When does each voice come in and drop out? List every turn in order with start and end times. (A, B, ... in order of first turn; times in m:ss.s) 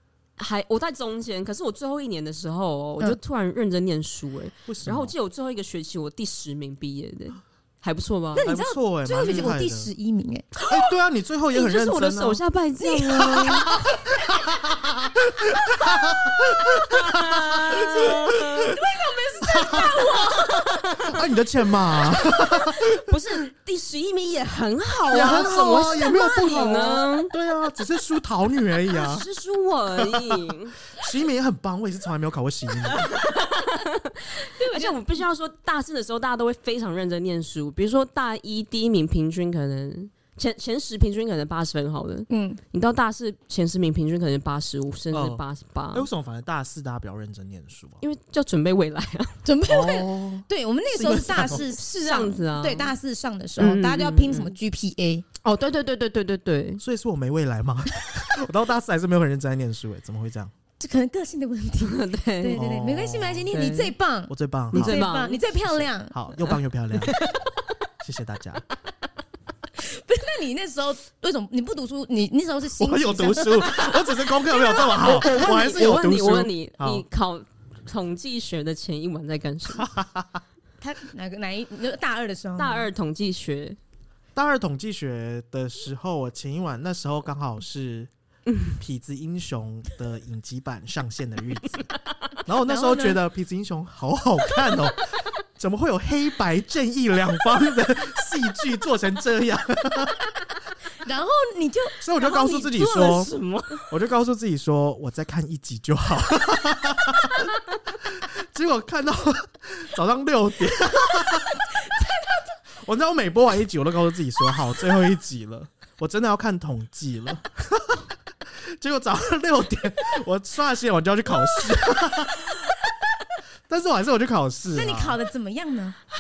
0:00.4-0:08.5 A
0:04.7-0:05.1 B
0:08.4-0:10.5 C
0:08.4-0:09.9 B
0:09.2-0:09.5 A
0:10.6-0:18.8 B
0:11.5-0:13.7 A
0:13.5-0:14.7 C
0:15.6-0:16.0 C
0:16.9-0:18.8 A
0:18.6-0:21.0 C
0:19.4-0:20.0 B
0:20.1-0:21.3 A
0:21.1-0:23.1 B
0:22.1-0:22.7 C
0:22.8-0:27.3 A
0:25.1-0:29.2 B
0:25.2-0:26.0 C
0:28.9-0:30.8 A
0:30.0-0:33.2 B
0:32.9-0:46.1 A
0:34.4-0:35.1 C
0:42.3-0:42.6 C
0:45.1-0:48.0 B
0:48.0-0:49.4 A
0:49.4-0:55.2 C
0:49.7-0:51.6 B
0:51.4-0:52.9 A
0:53.6-0:54.6 A
0:55.4-0:56.8 A
0:56.8-1:00.5 B
1:00.8-1:06.2 C
1:01.8-1:02.6 A
1:02.5-1:03.5 B
1:03.5-1:03.9 A
1:04.3-1:05.1 B
1:04.7-1:05.4 A
1:05.7-1:07.2 B
1:06.4-1:07.2 A
1:08.0-1:08.6 B
1:09.8-1:15.1 C
1:12.8-1:17.0 B
1:14.7-1:19.9 A
1:19.8-1:20.4 B
1:20.8-1:22.9 C
1:22.6-1:23.8 A
1:24.4-1:28.1 B
1:28.7-1:31.9 B
1:32.5-1:40.4 B
1:32.6-1:33.2 C
1:41.0-1:43.8 C
1:42.0-1:43.3 B
1:43.9-1:51.6 B
1:51.2-1:52.4 C
1:52.8-2:02.6 B
2:03.7-2:05.2 B
2:04.8-2:06.0 C